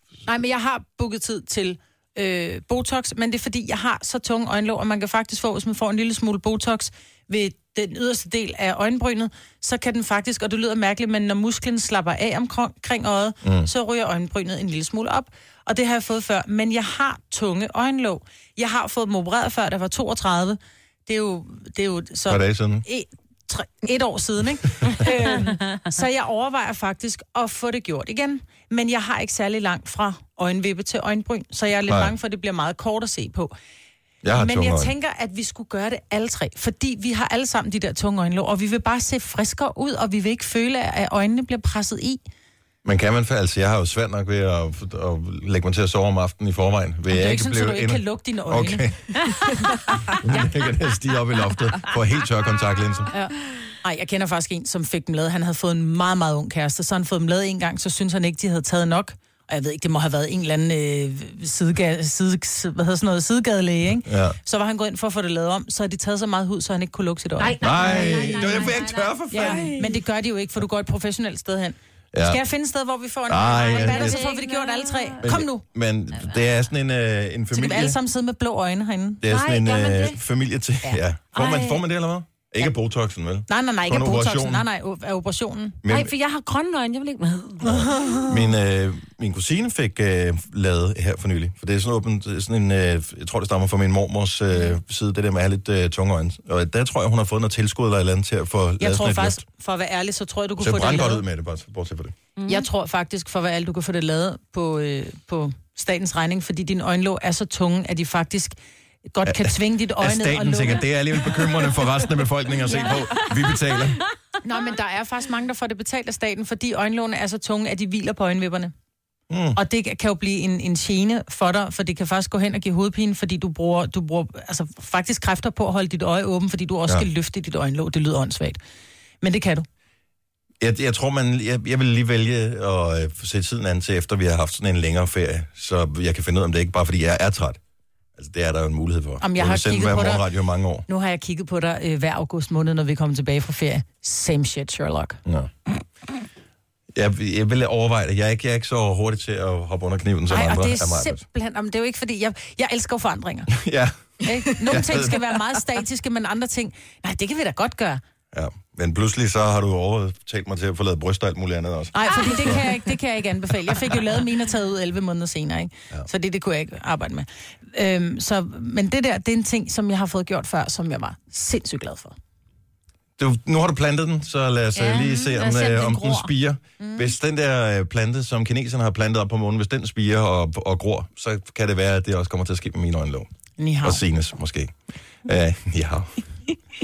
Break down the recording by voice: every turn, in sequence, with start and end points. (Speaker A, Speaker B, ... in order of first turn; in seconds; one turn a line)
Speaker A: 0.3-33.5
Speaker B: 13.4-13.7
Speaker B: 22.3-22.9
Speaker B: 31.9-32.1
Speaker B: 34.2-34.9
Speaker A: 34.3-42.2
Speaker B: 42.9-49.3
Speaker A: 47.1-48.9
Speaker B: 50.1-53.1
Speaker A: 53.1-68.4
Speaker B: 64.0-64.4
Speaker C: 67.4-69.9
Speaker B: 67.6-69.7
Speaker A: 69.3-75.6
Speaker B: 72.1-72.4
Speaker B: 73.3-74.2
Speaker C: 73.6-75.3
Speaker B: 75.2-78.0
Speaker A: 77.5-79.2
Speaker B: 79.2-84.7
Speaker C: 79.2-80.2
Speaker C: 81.3-81.8
Speaker A: 83.5-85.8
Speaker B: 85.8-86.1
Speaker C: 85.9-88.2
Speaker B: 87.6-99.4
Speaker A: 98.8-101.2
Speaker B: 100.6-102.1
Speaker C: 102.4-102.7
Speaker A: 102.5-108.5
Speaker A: 109.1-110.9
Speaker B: 109.2-114.0
Speaker A: 112.7-113.0
Speaker A: 114.4-118.7
Speaker B: 119.3-119.6
Speaker A: 119.5-128.6
Speaker A: 129.2-129.7
Speaker B: 130.6-137.6
Speaker B: 138.2-140.9
Speaker A: 139.2-140.2
Speaker A: 140.9-145.2
Speaker B: 145.2-145.5
Speaker B: 146.9-151.2
Speaker A: 150.3-153.5
Speaker B: 153.5-155.2
Speaker A: 154.2-158.0
Speaker B: 158.3-162.6
Speaker A: 161.9-172.2
Speaker B: 173.2-183.3
Speaker C: 174.8-176.3
Speaker A: 176.8-177.1
Speaker A: 183.6-184.0
Speaker B: 183.8-186.1